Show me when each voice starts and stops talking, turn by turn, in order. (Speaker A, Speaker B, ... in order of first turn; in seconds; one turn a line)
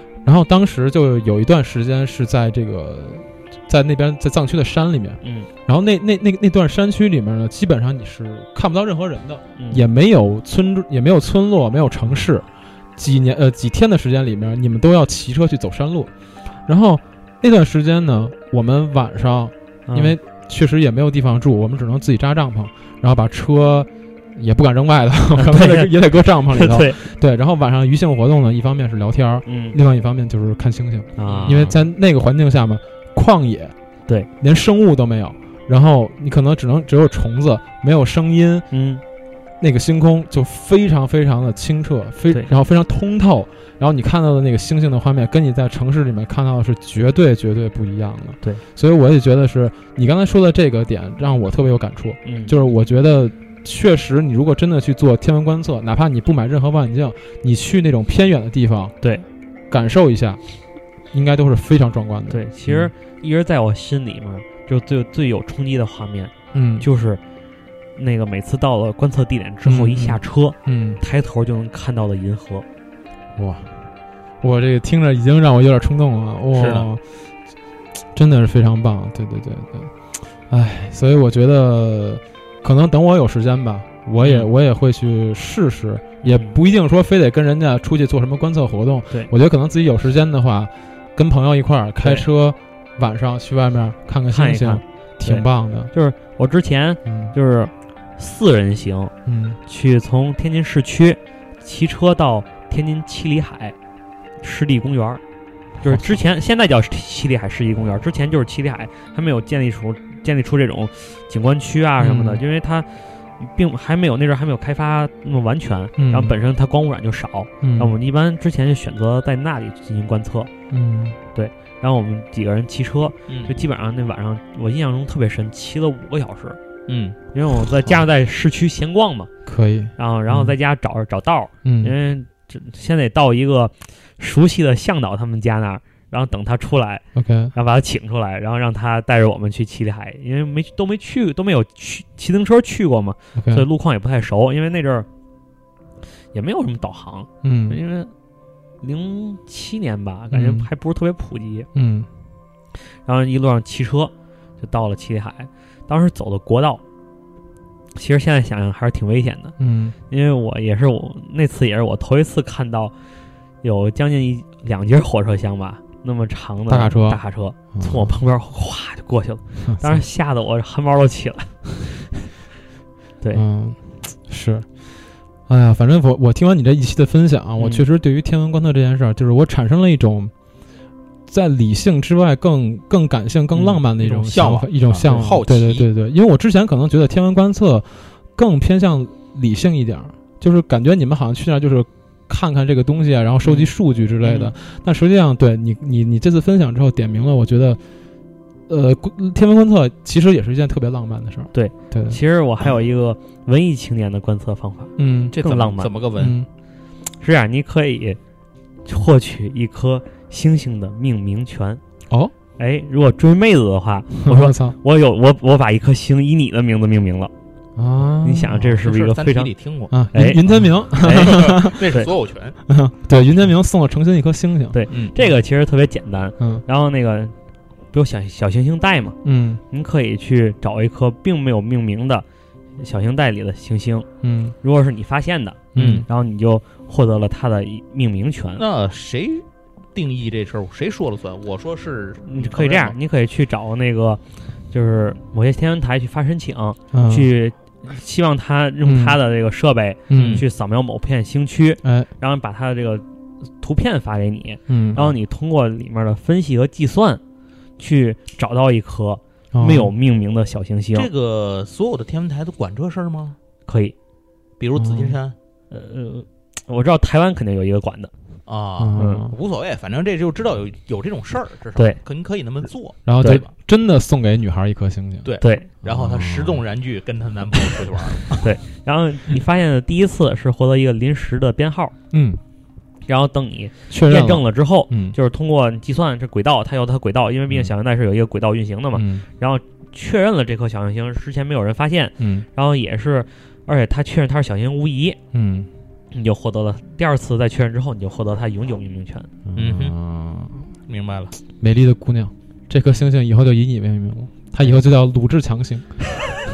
Speaker A: 0.2-16.1
Speaker B: 5.2-5.5
Speaker B: 9.6-9.9
Speaker A: 16.7-33.7
Speaker B: 19.9-20.2
Speaker B: 25.4-25.9
Speaker B: 26.5-27.0
Speaker B: 29.5-29.8
Speaker B: 31.2-31.8
Speaker C: 31.2-31.7
Speaker A: 34.4-38.7
Speaker B: 38.7-39.0
Speaker A: 39.6-59.0
Speaker B: 52.2-52.5
Speaker B: 59.0-59.3
Speaker A: 59.7-60.4
Speaker A: 61.1-62.9
Speaker B: 62.3-67.2
Speaker A: 66.5-66.9
Speaker B: 68.0-72.7
Speaker A: 69.6-71.0
Speaker A: 73.4-73.7
Speaker A: 74.4-77.0
Speaker C: 76.5-76.9
Speaker A: 78.1-95.9
Speaker B: 86.2-86.5
Speaker B: 92.0-92.3
Speaker B: 94.3-99.1
Speaker A: 97.1-97.3
Speaker A: 99.2-99.6
Speaker B: 99.7-103.8
Speaker B: 104.4-105.2
Speaker A: 105.8-106.2
Speaker B: 105.8-120.5
Speaker A: 112.0-112.4
Speaker A: 116.0-116.4
Speaker A: 117.6-117.9
Speaker A: 120.7-121.2
Speaker B: 121.3-126.6
Speaker C: 126.9-127.2
Speaker B: 127.3-129.3
Speaker A: 129.5-130.6
Speaker B: 130.0-137.0
Speaker A: 131.6-131.9
Speaker A: 137.2-137.5
Speaker B: 137.5-145.1
Speaker A: 143.4-143.7
Speaker B: 146.3-148.1
Speaker A: 147.4-147.8
Speaker B: 148.8-151.7
Speaker A: 150.3-150.7
Speaker A: 151.7-152.1
Speaker B: 153.1-156.8
Speaker B: 157.9-159.6
Speaker A: 159.6-160.0
Speaker B: 160.1-162.9
Speaker B: 163.6-171.6
Speaker A: 166.7-167.2
Speaker A: 167.7-168.2
Speaker A: 169.7-170.0
Speaker A: 173.3-174.7
Speaker A: 175.5-180.3
Speaker B: 177.6-177.9
Speaker A: 181.3-197.8
Speaker C: 183.6-185.9
Speaker B: 193.4-193.7
Speaker B: 194.2-194.5
Speaker A: 198.7-202.2
Speaker B: 201.5-205.9
Speaker A: 205.0-205.4
Speaker C: 205.3-206.4
Speaker A: 206.2-206.5
Speaker B: 207.2-208.2
Speaker B: 208.9-211.8
Speaker B: 212.6-217.3
Speaker A: 214.2-214.8
Speaker A: 217.8-218.7
Speaker B: 218.2-219.5
Speaker C: 218.8-219.9
Speaker A: 219.9-221.9
Speaker B: 220.1-222.1
Speaker C: 221.1-222.6
Speaker A: 222.7-224.8
Speaker B: 224.7-227.3
Speaker B: 227.9-229.2
Speaker A: 229.2-229.6
Speaker B: 229.7-232.2
Speaker B: 232.8-234.1
Speaker A: 234.2-234.6
Speaker B: 234.6-238.6
Speaker A: 235.8-236.1
Speaker C: 235.8-236.1
Speaker C: 238.6-239.4
Speaker C: 239.9-243.0
Speaker B: 242.2-253.1
Speaker A: 246.9-247.3
Speaker A: 248.8-249.2
Speaker A: 250.1-250.4
Speaker C: 250.1-250.4
Speaker A: 251.8-252.1
Speaker B: 253.6-257.2
Speaker A: 254.7-255.1
Speaker B: 257.8-261.1
Speaker A: 259.5-259.9
Speaker C: 260.9-263.4
Speaker B: 263.7-263.9
Speaker C: 264.6-265.4
Speaker A: 264.8-265.2
Speaker B: 265.7-268.1
Speaker C: 268.5-273.5
Speaker A: 268.8-269.3
Speaker B: 269.0-269.3
Speaker A: 273.1-275.3
Speaker C: 275.2-278.5
Speaker B: 275.4-275.7
Speaker A: 275.8-276.6
Speaker B: 278.4-281.9
Speaker A: 282.1-282.4
Speaker B: 283.1-295.2
Speaker A: 283.9-285.2
Speaker A: 288.9-289.2
Speaker A: 292.2-292.5
Speaker A: 295.3-295.7
Speaker B: 296.1-299.3
Speaker A: 299.5-300.7
Speaker C: 299.6-299.9
Speaker C: 300.9-301.4
Speaker A: 301.6-306.3